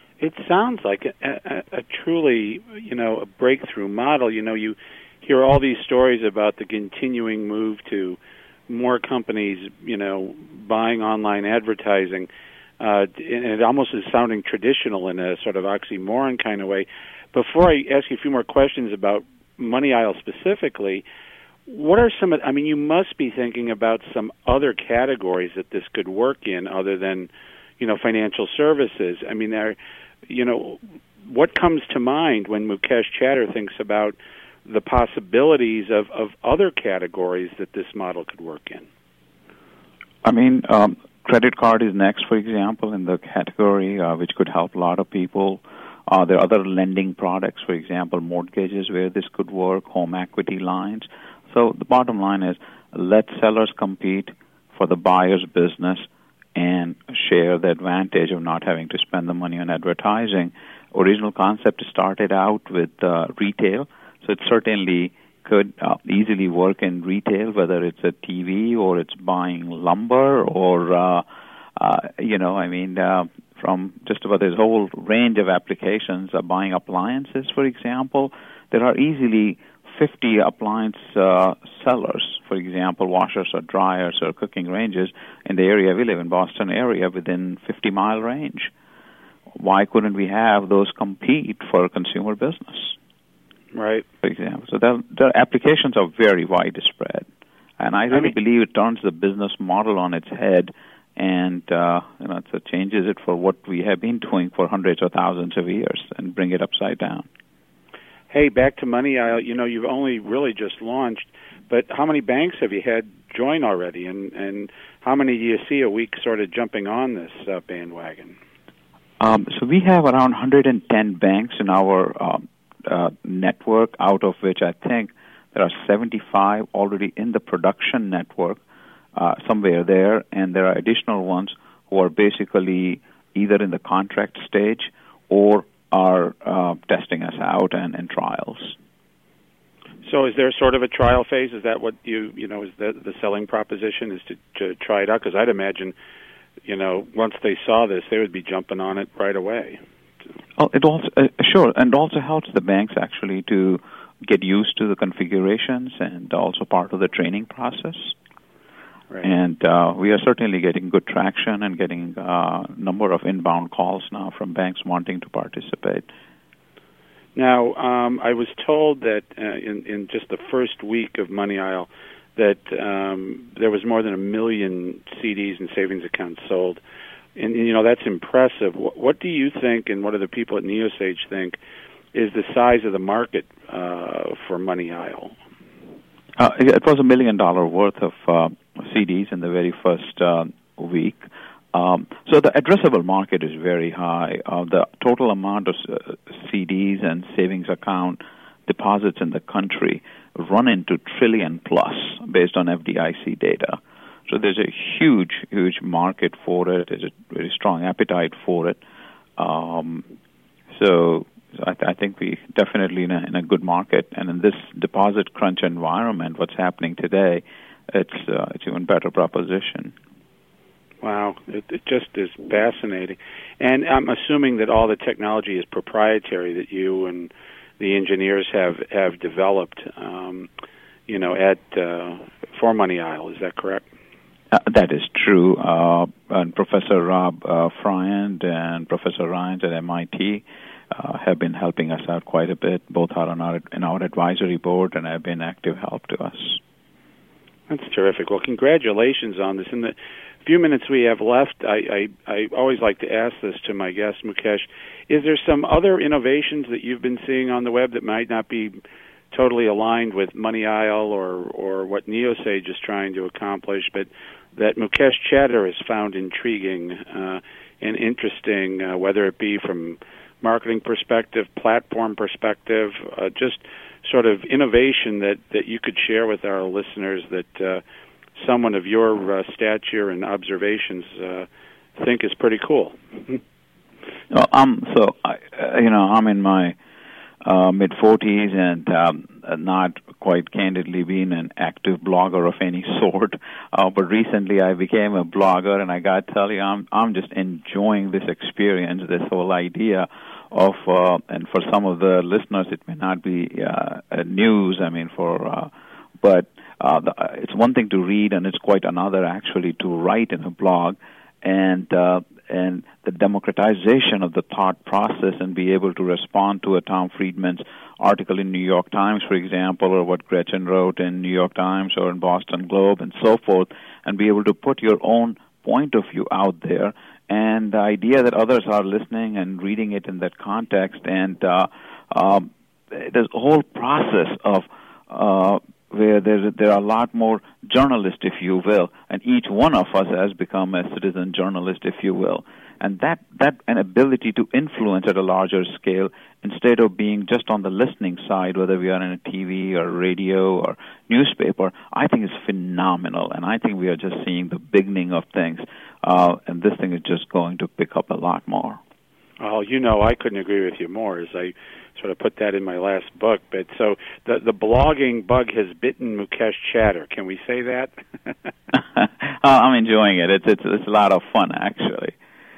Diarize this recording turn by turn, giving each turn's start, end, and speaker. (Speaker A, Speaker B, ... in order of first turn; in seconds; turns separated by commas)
Speaker A: 0.2-8.2, Speaker A: 8.7-12.3, Speaker A: 12.8-21.1, Speaker A: 21.7-38.9, Speaker B: 40.2-71.2, Speaker B: 71.8-88.7, Speaker B: 89.5-93.0, Speaker A: 93.7-94.1, Speaker B: 94.2-97.3, Speaker B: 97.8-107.3, Speaker A: 108.3-118.4, Speaker B: 119.2-128.6, Speaker B: 129.2-138.8, Speaker A: 140.0-145.9, Speaker A: 146.7-149.8, Speaker B: 150.6-158.2, Speaker B: 159.2-166.1, Speaker A: 167.3-176.8, Speaker A: 177.4-181.6, Speaker A: 182.1-185.3, Speaker B: 186.4-208.8, Speaker B: 209.4-210.1, Speaker B: 210.7-219.9, Speaker A: 221.0-230.5, Speaker A: 231.1-233.8, Speaker B: 234.5-246.6, Speaker A: 247.7-258.8, Speaker A: 259.3-277.8, Speaker A: 278.4-283.4, Speaker B: 284.3-286.8, Speaker B: 287.4-358.8, Speaker A: 359.4-368.5, Speaker B: 368.7-372.1